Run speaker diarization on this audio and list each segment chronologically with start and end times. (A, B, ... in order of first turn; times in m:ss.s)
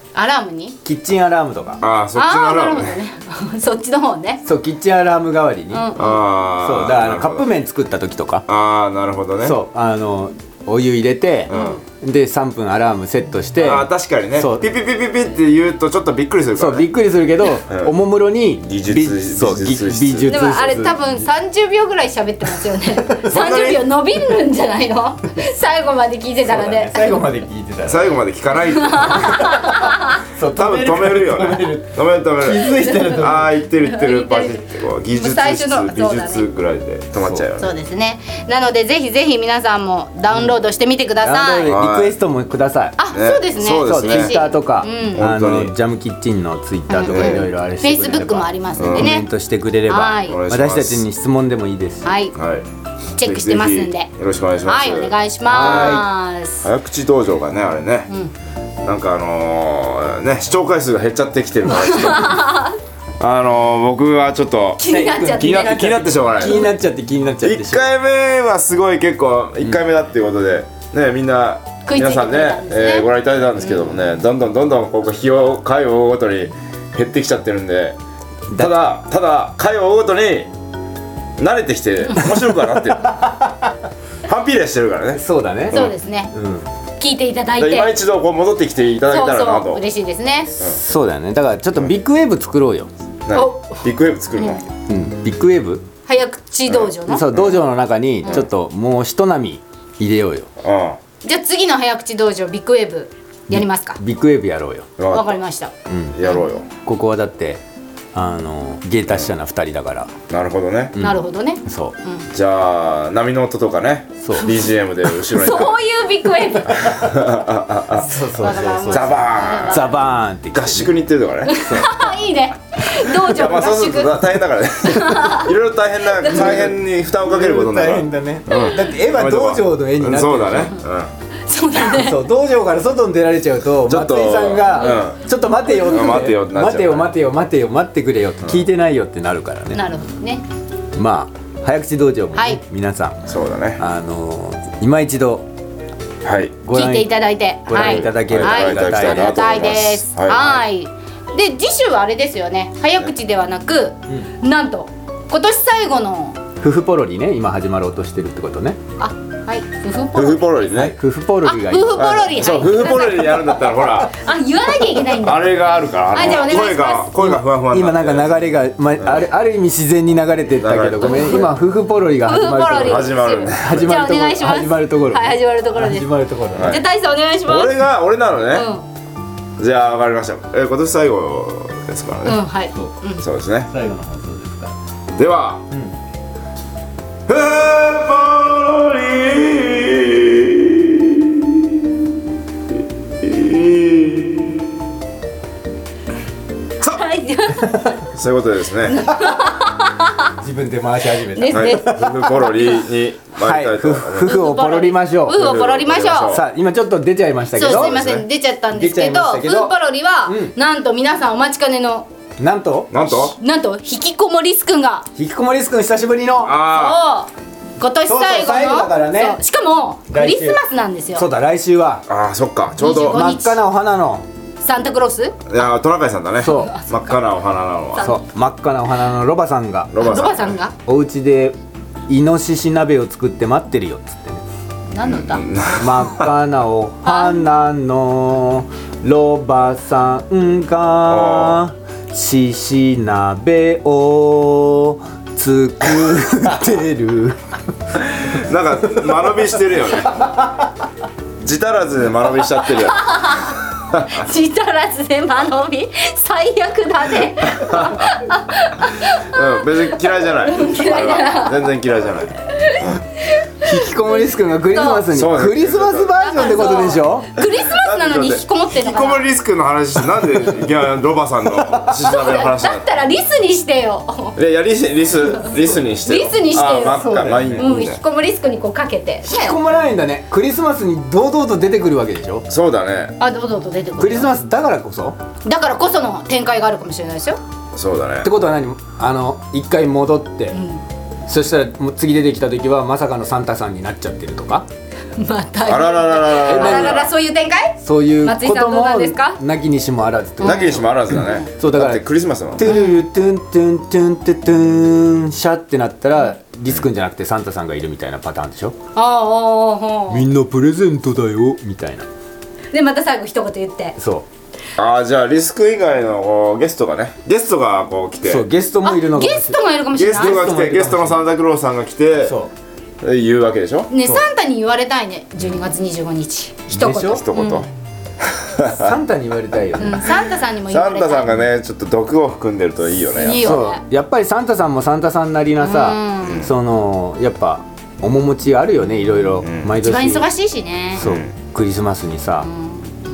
0:00.2-0:00.8 A
0:00.8-0:01.8 B
0:01.8-0:03.0 C
0:02.2-0:04.4 A
0:04.4-0:05.9 B
0:05.7-0:06.2 A
0:06.0-0:07.5 C
0:06.6-0:08.5 B
0:08.5-0:09.6 C
0:09.4-0:14.7 B
0:11.5-0:11.8 C
0:11.5-0:11.8 A
0:13.6-0:16.9 C
0:16.6-0:21.0 B
0:17.6-0:18.0 C
0:18.6-0:20.4 C
0:20.2-0:27.2 A
0:23.3-0:23.8 C
0:26.4-0:28.1 B
0:27.9-0:29.4 C
0:28.8-0:30.2 A
0:29.0-0:33.5 B
0:30.5-0:37.7 C
0:32.9-0:36.4 A
0:37.2-0:37.4 B
0:37.6-0:41.8 A
0:40.3-0:40.6 B
0:41.2-0:43.0 B
0:41.6-0:42.2 C
0:43.0-0:45.3 A
0:43.1-0:44.4 C
0:43.8-0:52.2 B
0:45.1-0:45.7 C
0:46.9-0:49.3 A
0:47.0-0:47.5 C
0:48.8-0:49.2 C
0:49.9-0:50.4 A
0:50.2-0:51.1 C
0:52.0-0:52.4 A
0:52.4-0:52.7 C
0:53.2-0:54.1 A
0:53.2-0:56.1 C
0:54.7-0:56.7 A
0:55.5-0:56.1 B
0:56.6-0:58.1 C
0:58.8-1:02.5 C
1:01.7-1:02.8 A
1:03.2-1:06.7 C
1:04.8-1:06.7 A
1:04.9-1:07.9 B
1:07.4-1:18.0 C
1:11.8-1:13.1 A
1:13.6-1:13.9 A
1:18.5-1:20.5 C
1:21.4-1:23.2 C
1:22.2-1:23.7 B
1:24.2-1:26.0 C
1:25.2-1:26.7 B
1:25.7-1:26.3 A
1:27.0-1:28.0 A
1:27.6-1:29.8 C
1:29.1-1:30.6 A
1:30.6-1:32.9 B
1:33.3-1:34.7 C
1:33.3-1:34.6 A
1:34.9-1:35.8 B
1:36.1-1:37.3 A
1:36.7-1:37.6 C
1:37.0-1:40.5 B
1:40.6-1:41.0 C
1:41.2-1:44.0 A
1:43.5-1:44.9 B
1:45.0-1:45.4 C
1:45.1-1:45.7 A
1:45.9-1:46.2 B
1:46.1-1:46.7 C
1:46.2-1:46.6 A
1:46.8-1:47.6 B
1:48.1-1:50.1 B
1:50.3-1:51.0 C
1:51.0-1:52.0 B
1:51.0-1:52.3 A
1:52.3-1:55.8 C
1:54.2-1:54.5 B
1:54.4-1:57.1 A
1:56.7-1:58.1 C
1:58.0-2:00.9 B
1:58.4-2:00.0 A
1:58.9-1:59.9 C
2:00.5-2:01.9 C
2:01.5-2:04.3 A
2:01.6-2:01.9 B
2:03.3-2:11.1 C
2:04.9-2:05.5 A
2:06.1-2:06.7 A
2:06.3-2:10.8 B
2:08.5-2:08.8 A
2:11.5-2:12.2 A
2:11.8-2:19.8 B
2:13.8-2:15.2 C
2:14.7-2:15.0 A
2:15.8-2:17.2 C
2:19.7-2:20.4 A
2:20.9-2:23.2 B
2:22.4-2:22.6 A
2:23.3-2:23.8 C
2:23.8-2:25.4 B
2:26.2-2:26.6 C
2:26.6-2:29.6 B
2:26.7-2:36.4 A
2:27.7-2:30.6 C
2:36.6-2:38.8 B
2:39.0-2:40.5 A
2:40.1-2:40.9 C
2:40.7-2:42.3 B
2:41.4-2:47.1 A
2:42.0-2:44.2 C
2:45.0-2:48.5 C
2:47.1-2:56.8 B
2:49.0-2:49.3 C
2:50.5-2:51.5 C
2:51.0-2:51.6 A
2:52.2-2:57.8 A
2:52.8-2:54.0 C
2:56.6-2:56.9 C
2:57.4-2:58.7 C
2:58.5-2:58.8 A
2:59.6-3:02.4 C
3:02.2-3:03.2 A
3:03.2-3:03.7 C
3:03.7-3:04.7 B
3:05.1-3:05.6 C
3:07.3-3:11.5 C
3:13.2-3:14.4 C
3:16.8-3:18.0 A
3:18.1-3:19.1 C
3:18.9-3:20.2 A
3:20.4-3:22.4 B
3:21.3-3:22.8 A
3:21.5-3:24.4 C
3:23.4-3:25.5 B
3:24.2-3:26.4 A
3:25.3-3:26.4 C
3:26.3-3:28.0 B
3:27.5-3:32.1 A
3:27.6-3:28.3 C
3:28.7-3:29.7 B
3:30.3-3:30.5 B
3:32.4-3:32.9 B
3:32.9-3:33.4 C
3:33.0-3:35.1 A
3:35.2-3:36.5 B
3:36.4-3:37.0 C
3:36.7-3:41.2 A
3:38.0-3:39.4 B
3:40.1-3:40.6 B
3:41.2-3:42.1 B
3:42.1-3:43.3 C
3:42.8-3:43.6 A
3:43.0-3:44.2 B
3:44.6-3:45.4 A
3:45.5-3:48.1 C
3:46.4-3:46.7 B
3:46.4-3:47.2 A
3:48.0-3:48.2 A
3:48.0-3:49.9 B
3:49.9-3:50.6 C
3:50.0-3:50.8 A
3:50.8-3:51.6 B
3:52.1-3:54.4 B
3:54.9-3:55.4 A
3:55.0-3:56.3 C
3:55.8-4:07.4 B
3:57.0-3:57.6 A
4:01.1-4:01.6 C
4:08.2-4:10.2 C
4:11.4-4:13.4 C
4:12.8-4:21.8 A
4:17.6-4:18.1 C
4:19.2-4:22.9 C
4:23.6-4:27.3 B
4:24.0-4:25.1 A
4:25.1-4:26.3 C
4:26.1-4:29.3 A
4:27.6-4:32.9 C
4:31.5-4:32.0 B
4:32.0-4:34.4 A
4:34.4-4:38.0 C
4:35.3-4:39.6 A
4:36.9-4:37.7 B
4:39.2-4:42.5 B
4:42.5-4:43.2 C
4:43.2-4:44.4 A
4:44.0-4:45.2 B
4:45.4-4:47.4 A
4:47.7-4:48.3 C
4:48.2-4:50.6 B
4:50.5-4:50.8 A
4:51.3-4:54.7 B
4:55.2-4:59.4 A
4:55.6-4:57.1 C
4:56.4-4:57.1 B
4:57.8-5:08.8 B
5:00.4-5:01.5 A
5:00.4-5:02.7 C
5:02.6-5:03.0 A
5:09.0-5:10.3 A
5:10.1-5:12.1 B
5:12.7-5:14.0 A
5:14.0-5:14.2 B
5:14.8-5:18.5 C
5:18.3-5:21.2 B
5:18.8-5:20.5 A
5:19.9-5:22.4 C
5:22.2-5:22.5 B
5:23.0-5:23.9 C
5:23.9-5:27.7 A
5:26.7-5:27.2 B
5:27.1-5:27.7 C
5:28.2-5:28.9 C
5:28.6-5:30.1 B
5:29.8-5:31.4 A
5:30.7-5:33.6 C
5:32.9-5:33.8 A
5:33.4-5:40.3 B
5:35.6-5:36.5 A
5:36.2-5:36.5 C
5:39.4-5:39.7 C
5:39.8-5:41.1 A
5:41.0-5:41.3 C
5:41.0-5:42.5 B
5:42.4-5:42.8 A